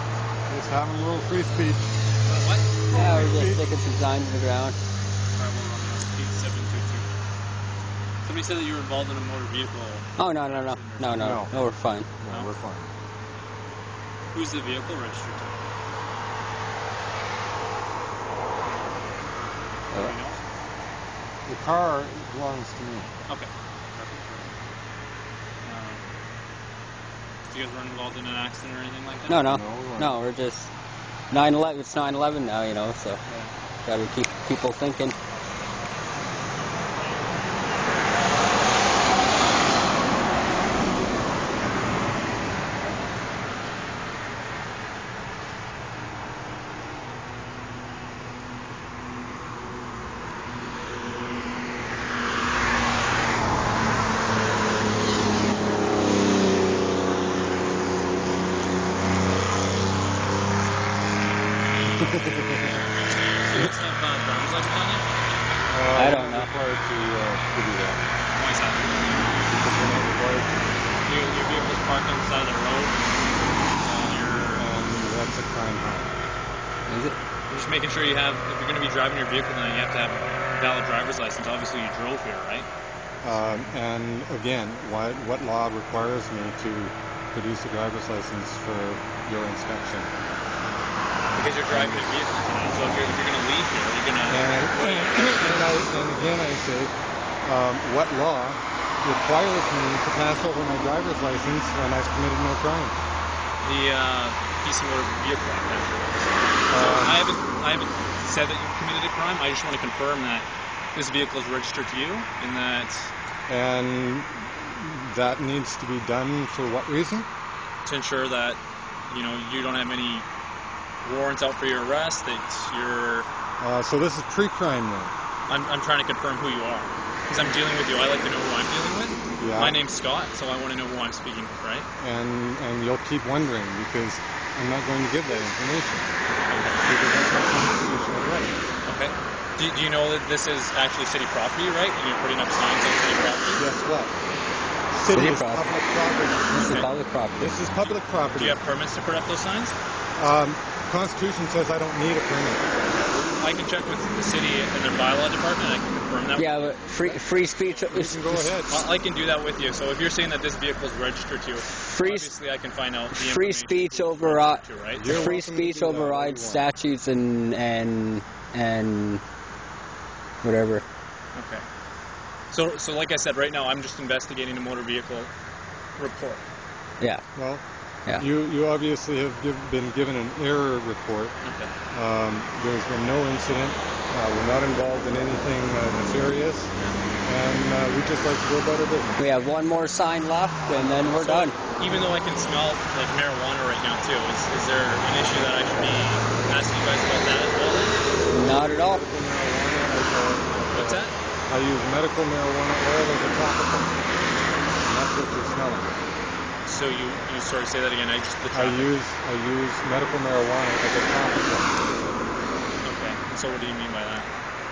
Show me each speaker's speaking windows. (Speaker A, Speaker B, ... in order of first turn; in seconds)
Speaker A: 0.5-1.9, 2.9-3.6, 11.1-11.5, 12.2-12.9, 21.5-23.2, 29.5-30.2, 62.0-62.7, 65.7-68.1, 69.4-70.9, 74.5-76.2, 83.2-90.1, 91.7-92.1, 94.3-96.9, 97.4-103.0, 106.7-107.3, 113.5-117.3, 123.6-125.1, 129.4-129.8, 132.0-138.6, 143.6-144.2, 144.9-146.9, 147.4-148.6, 150.2-152.7, 157.9-158.9, 164.9-166.7, 177.3-177.6, 178.2-181.3, 181.9-186.7, 187.2-189.2, 198.3-204.2, 204.8-206.0, 208.5-211.9
Speaker B: 2.2-3.3, 5.3-7.1, 8.2-11.4, 14.3-15.6, 19.9-20.4, 23.3-24.5, 25.6-26.1, 27.5-29.4, 33.3-33.5, 63.5-65.1, 68.4-69.3, 71.0-73.0, 73.8-74.7, 77.5-82.7, 83.3-83.7, 91.3-95.7, 103.6-113.1, 117.9-120.3, 121.0-123.3, 125.5-131.9, 136.5-136.8, 138.9-143.7, 146.6-146.9, 147.9-149.8, 152.9-156.8, 158.7-165.3, 171.3-171.7, 172.5-175.3, 176.0-176.4, 181.4-181.7, 191.1-198.0, 200.7-201.2, 206.7-208.9, 212.8-214.3
Speaker C: 2.9-4.8, 10.2-12.1, 29.3-30.7, 31.3-33.2, 33.9-35.2, 65.9-66.5, 76.9-77.2, 145.1-145.8, 146.5-147.6, 156.4-158.6, 161.9-162.3, 163.2-169.2, 170.4-170.8, 189.2-191.6, 198.3-199.1